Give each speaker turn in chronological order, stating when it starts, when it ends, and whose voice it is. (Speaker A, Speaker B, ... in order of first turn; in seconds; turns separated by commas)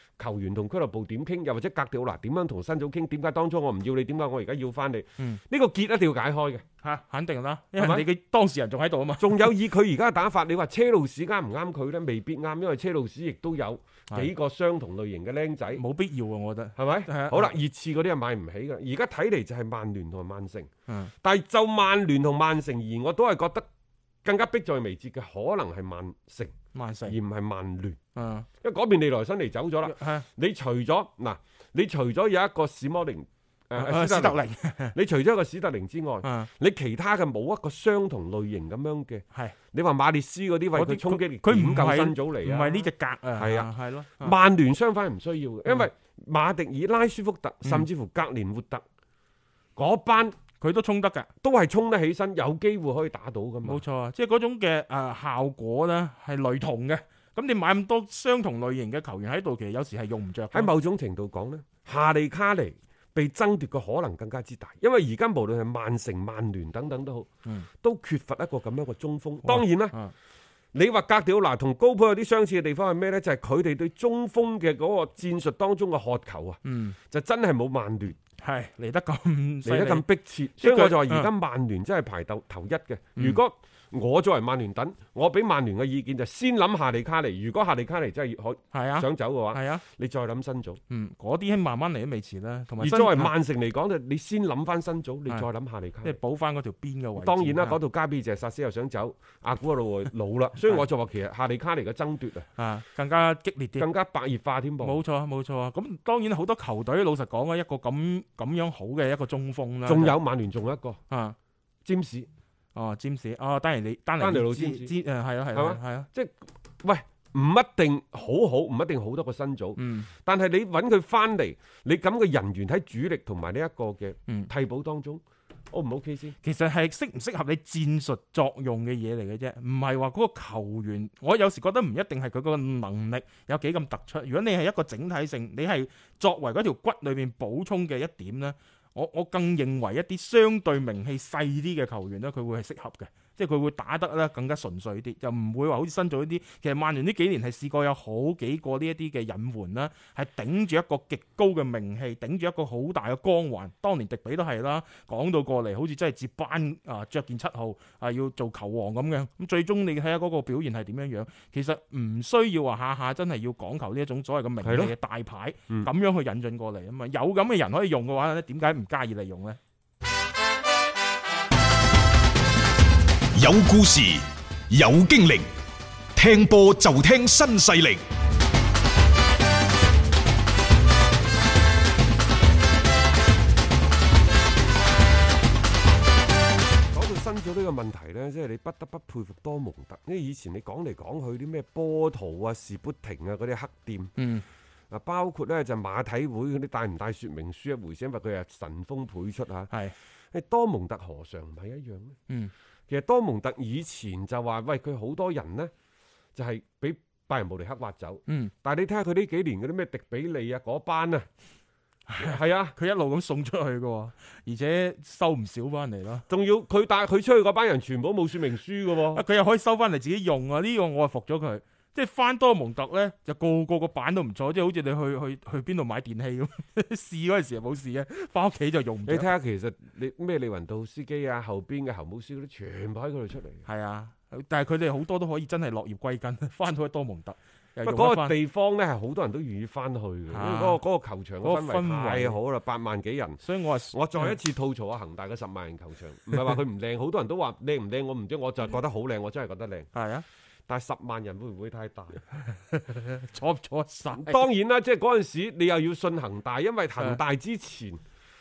Speaker A: 0.2-6.7, Speaker B: 6.8-9.5, Speaker A: 7.8-8.1, Speaker A: 9.2-15.8, Speaker B: 15.7-17.6, Speaker A: 16.8-20.7, Speaker A: 21.2-23.7, Speaker A: 24.2-26.6, Speaker B: 26.7-27.1, Speaker A: 27.1-28.0, Speaker B: 28.1-28.5, Speaker A: 28.6-34.4, Speaker B: 29.8-30.3, Speaker B: 33.8-35.0, Speaker A: 34.9-48.9, Speaker B: 36.2-36.5, Speaker B: 40.8-44.4, Speaker A: 49.8-50.4, Speaker B: 50.6-51.3, Speaker A: 51.4-53.8, Speaker B: 53.6-60.7, Speaker A: 60.5-70.0, Speaker B: 69.5-70.1, Speaker A: 70.7-78.2, Speaker B: 76.7-77.0, Speaker B: 78.4-80.0, Speaker A: 79.7-90.8, Speaker B: 80.6-81.3, Speaker B: 88.7-89.8, Speaker B: 90.9-93.3, Speaker A: 92.8-96.2, Speaker B: 96.0-97.8, Speaker A: 97.2-102.5, Speaker B: 102.6-103.9, Speaker A: 103.8-105.0, Speaker B: 104.8-110.2, Speaker A: 109.8-111.0, Speaker B: 111.1-111.4, Speaker A: 111.8-112.3, Speaker B: 112.8-116.1, Speaker A: 114.2-114.9, Speaker A: 115.5-126.4, Speaker B: 119.8-120.1, Speaker B: 126.4-169.6, Speaker A: 164.6-164.9, Speaker C: 173.3-175.5, Speaker C: 176.2-178.0, Speaker A: 186.9-194.2, Speaker B: 194.2-194.4, Speaker A: 194.9-199.7, Speaker B: 199.7-199.9, Speaker A: 200.3-202.2, Speaker A: 202.9-205.7, Speaker A: 206.3-211.3, Speaker B: 208.3-208.5, Speaker B: 212.1-216.3, Speaker A: 212.2-212.8, Speaker A: 216.3-219.2, Speaker B: 219.1-229.3, Speaker A: 229.1-233.7, Speaker B: 233.7-238.4, Speaker A: 237.8-249.9, Speaker B: 240.3-240.8, Speaker B: 241.4-242.4, Speaker B: 243.4-244.4, Speaker B: 249.9-250.2, Speaker A: 250.7-252.2, Speaker B: 252.4-254.4, Speaker A: 254.1-258.0